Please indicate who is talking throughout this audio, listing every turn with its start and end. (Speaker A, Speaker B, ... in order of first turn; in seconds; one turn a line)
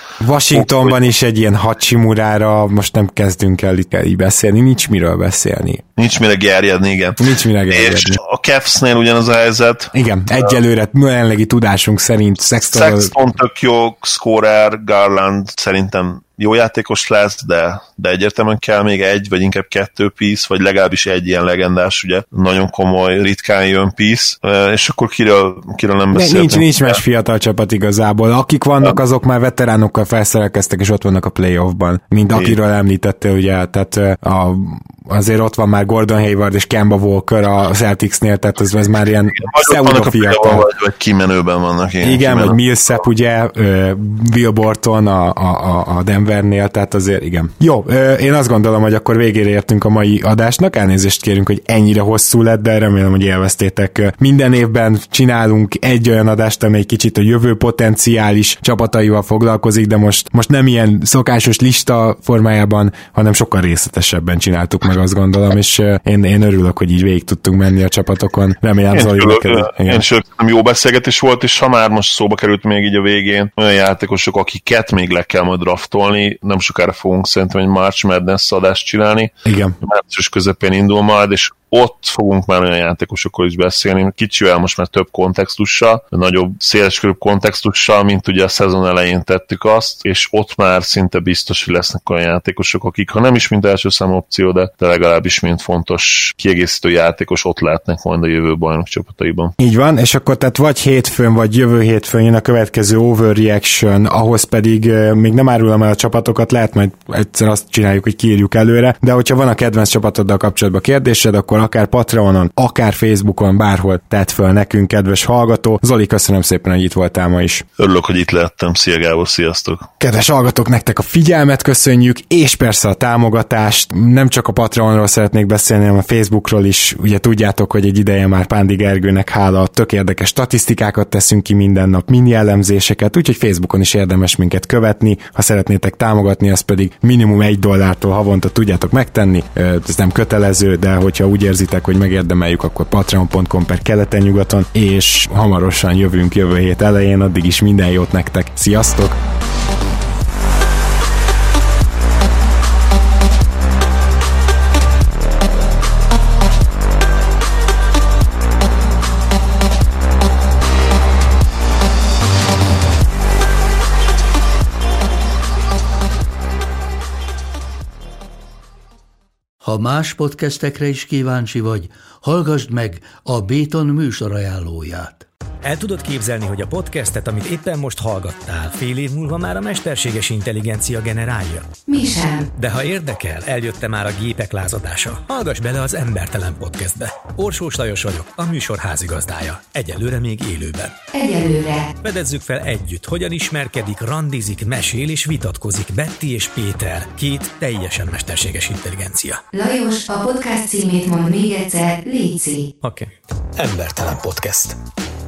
Speaker A: 0.2-5.8
Speaker B: 0.5-1.0
Speaker B: 6.0-9.9
Speaker A: 7.2-8.2
Speaker A: 9.9-13.1
Speaker B: 12.7-27.0
Speaker A: 26.1-40.7
Speaker B: 39.4-42.6
Speaker A: 42.0-70.0
Speaker B: 68.9-99.5
Speaker A: 79.5-79.8
Speaker A: 99.6-117.7
Speaker B: 117.8-119.9
Speaker A: 120.0-149.2
Speaker C: 169.6-175.3
Speaker D: 175.6-181.7
Speaker E: 181.9-182.5
Speaker D: 182.6-191.0
Speaker E: 191.1-191.9
Speaker D: 192.0-199.4
Speaker E: 199.5-202.7
Speaker D: 202.8-204.8